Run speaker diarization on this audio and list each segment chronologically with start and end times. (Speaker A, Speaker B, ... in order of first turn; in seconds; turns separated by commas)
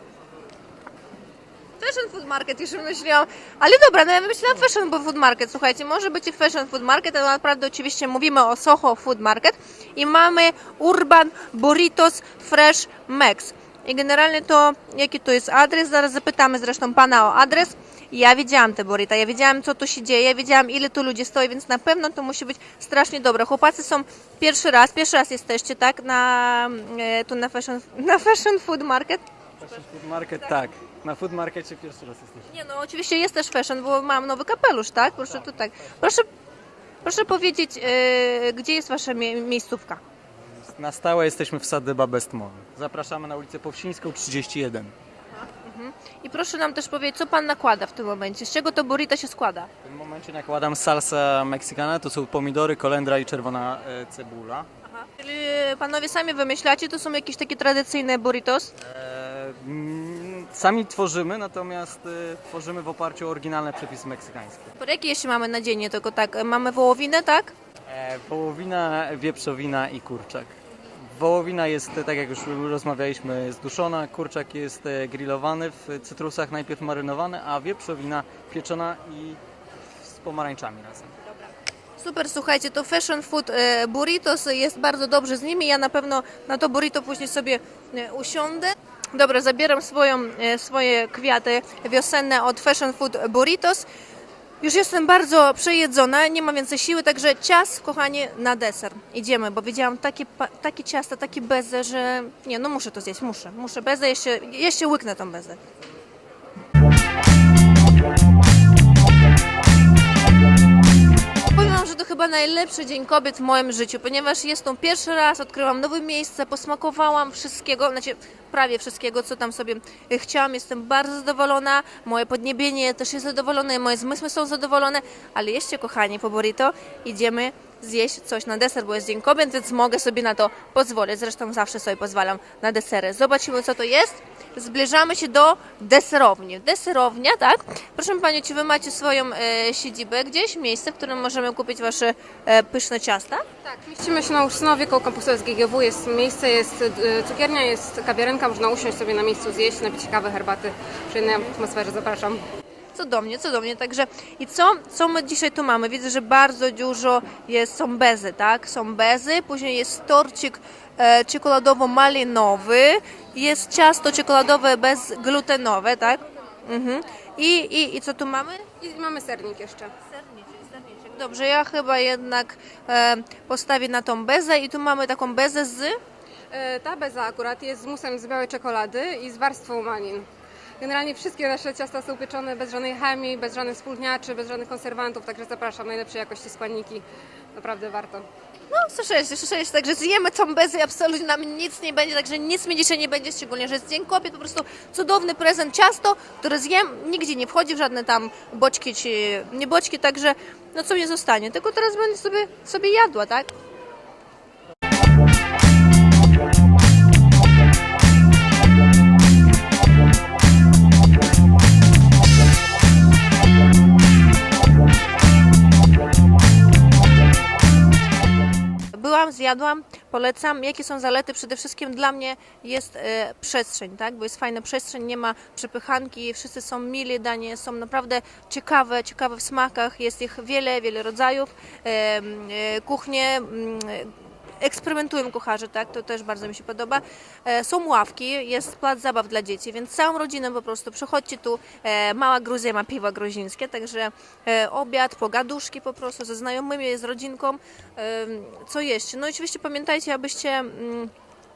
Speaker A: 1.8-29.2, Speaker B: 29.6-32.5, Speaker A: 32.5-36.2, Speaker A: 37.0-40.0, Speaker B: 40.7-44.9, Speaker A: 45.4-49.7, Speaker B: 49.8-54.7, Speaker A: 54.8-58.7, Speaker B: 58.8-64.7, Speaker A: 64.8-67.5, Speaker B: 67.9-79.4, Speaker B: 80.0-81.1, Speaker A: 82.0-93.9, Speaker A: 94.6-105.6, Speaker A: 111.5-143.4, Speaker C: 143.7-152.4, Speaker A: 152.9-168.6, Speaker C: 168.8-169.9, Speaker A: 170.1-176.0, Speaker C: 176.5-180.3, Speaker C: 180.8-187.0, Speaker C: 187.5-188.3, Speaker A: 188.7-203.5, Speaker A: 218.9-251.1